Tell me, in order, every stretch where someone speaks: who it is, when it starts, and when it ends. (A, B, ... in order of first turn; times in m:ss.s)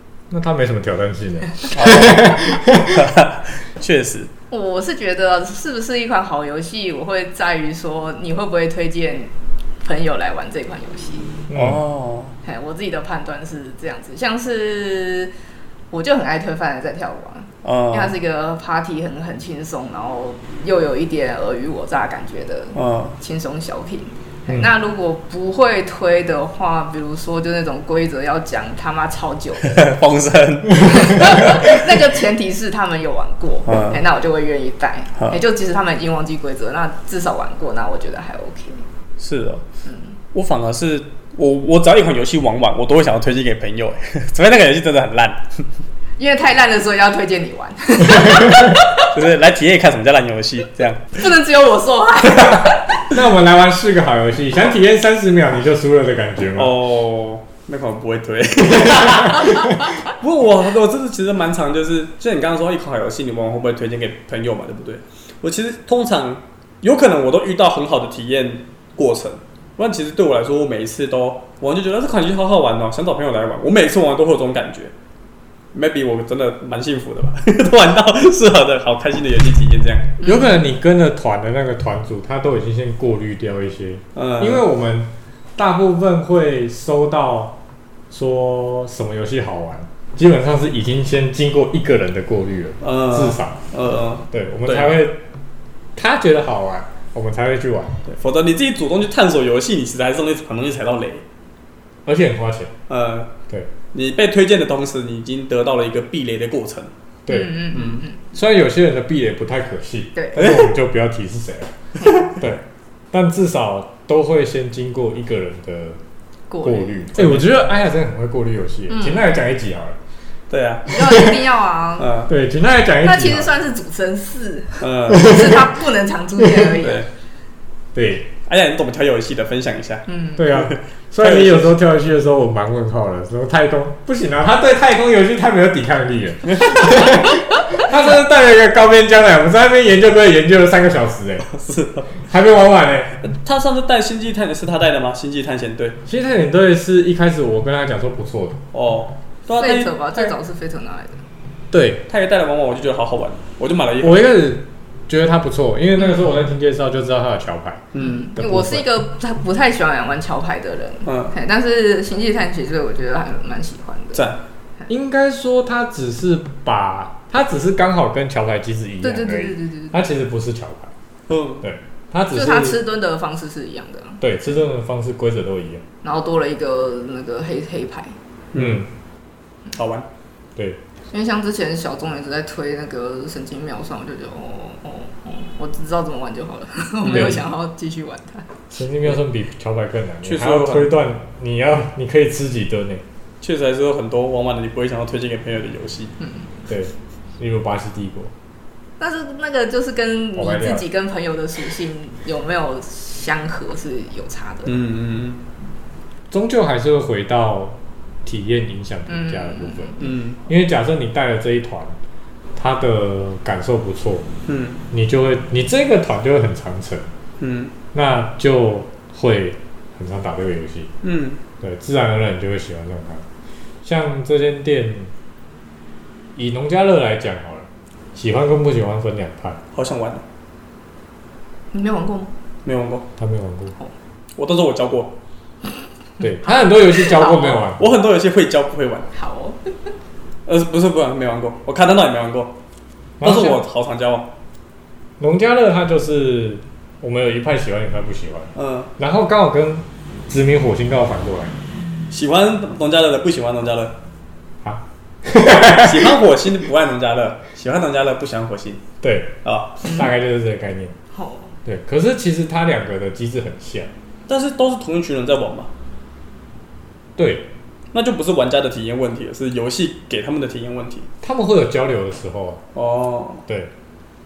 0:00.3-0:03.1 A
0:01.7-0:04.3 B
0:04.5-0:11.3 C
0:11.5-0:11.8 A
0:11.5-0:12.3 B
0:12.4-0:15.3 C
0:15.9-0:29.8 C
0:17.6-0:18.2 B
0:22.7-0:23.1 B
0:29.6-0:31.8 B
0:30.7-0:38.8 C
0:33.6-0:34.0 B
0:35.2-0:35.4 B
0:39.2-0:39.6 B
0:39.9-0:40.1 C
0:40.3-0:45.6 B
0:46.2-0:49.1 C
0:48.2-0:48.7 A
0:49.0-0:51.2 B
0:51.1-0:53.0 C
0:53.1-0:56.8 A
0:56.6-1:14.9 B
0:58.7-0:59.6 A
1:15.7-1:20.2 B
1:20.2-1:20.6 C
1:20.2-1:27.6 A
1:24.1-1:24.6 B
1:28.1-1:33.6 A
1:32.8-1:35.0 B
1:34.3-1:35.2 A
1:36.0-1:38.0 A
1:38.1-1:41.2 B
1:42.0-1:42.7 A
1:42.9-1:43.3 B
1:43.9-1:46.9 B
1:47.2-1:47.7 A
1:47.3-1:48.2 C
1:47.7-1:48.0 B
1:48.3-1:56.0 A
1:50.3-1:50.8 B
1:56.5-1:57.3 C
1:56.6-2:00.0 A
1:57.1-1:57.5 B
1:58.9-1:59.3 C
2:00.5-2:00.9 B
2:00.9-2:02.1 C
2:01.0-2:01.4 A
2:02.0-2:02.3 B
2:02.3-2:03.5 A
2:03.0-2:07.0 C
2:04.8-2:05.7 B
2:05.1-2:05.5 A
2:06.7-2:07.1 B
2:07.9-2:08.3 A
2:08.5-2:11.7 B
2:10.1-2:10.4 C
2:10.4-2:21.5 A
2:16.5-2:17.1 B
2:21.5-2:22.1 B
2:22.2-2:23.2 A
2:23.2-2:26.0 B
2:26.0-2:28.6 A
2:28.7-2:30.3 B
2:29.6-2:31.2 C
2:31.7-2:32.0 A
2:32.1-2:34.4 B
2:34.0-2:38.9 A
2:37.9-2:38.3 B
2:38.0-2:44.3 C
2:41.0-2:41.3 B
2:44.1-2:44.4 B
2:44.9-2:50.9 A
2:49.0-2:49.9 C
2:51.3-2:51.6 B
2:51.6-2:52.8 A
2:52.3-2:54.2 C
2:54.2-2:55.8 A
2:56.0-2:58.1 C
2:58.5-2:58.8 B
2:58.6-2:58.9 A
2:59.7-3:00.1 B
3:01.1-3:08.5 C
3:07.0-3:07.4 B
3:07.1-3:07.4 A
3:08.7-3:13.0 A
3:10.2-3:11.0 B
3:13.4-3:16.1 B
3:16.2-3:16.5 C
3:16.7-3:18.3 A
3:19.0-3:24.8 C
3:20.4-3:20.9 A
3:24.6-3:25.4 B
3:26.3-3:32.0 A
3:29.1-3:30.1 C
3:30.0-3:30.4 B
3:32.6-3:34.3 A
3:34.5-3:34.8 B
3:34.9-3:37.1 A
3:37.4-3:37.7 B
3:37.9-3:40.9 A
3:41.0-3:41.4 B
3:41.6-3:43.2 A
3:43.8-3:45.1 A
3:46.4-3:49.6 A
3:49.7-3:50.2 B
3:51.7-3:52.3 C
3:52.6-3:53.1 B
3:53.2-3:53.8 A
3:54.4-3:55.2 B
3:56.2-3:58.0 A
3:56.4-3:57.6 C
3:57.2-3:59.1 B
3:59.1-3:59.9 C
4:00.4-4:02.6 B
4:03.2-4:03.6 A
4:03.2-4:04.3 B
4:05.2-4:11.6 A
4:08.6-4:08.9 B
4:12.1-4:14.0 B
4:14.6-4:16.2 A
4:15.7-4:18.8 B
4:19.0-4:21.0 A
4:19.4-4:19.8 B
4:21.1-4:21.5 C
4:21.6-4:23.9 A
4:24.3-4:25.7 B
4:27.2-4:27.5 A
4:27.9-4:31.1 B
4:31.2-4:32.6 A
4:32.7-4:33.4 B
4:33.4-4:33.7 A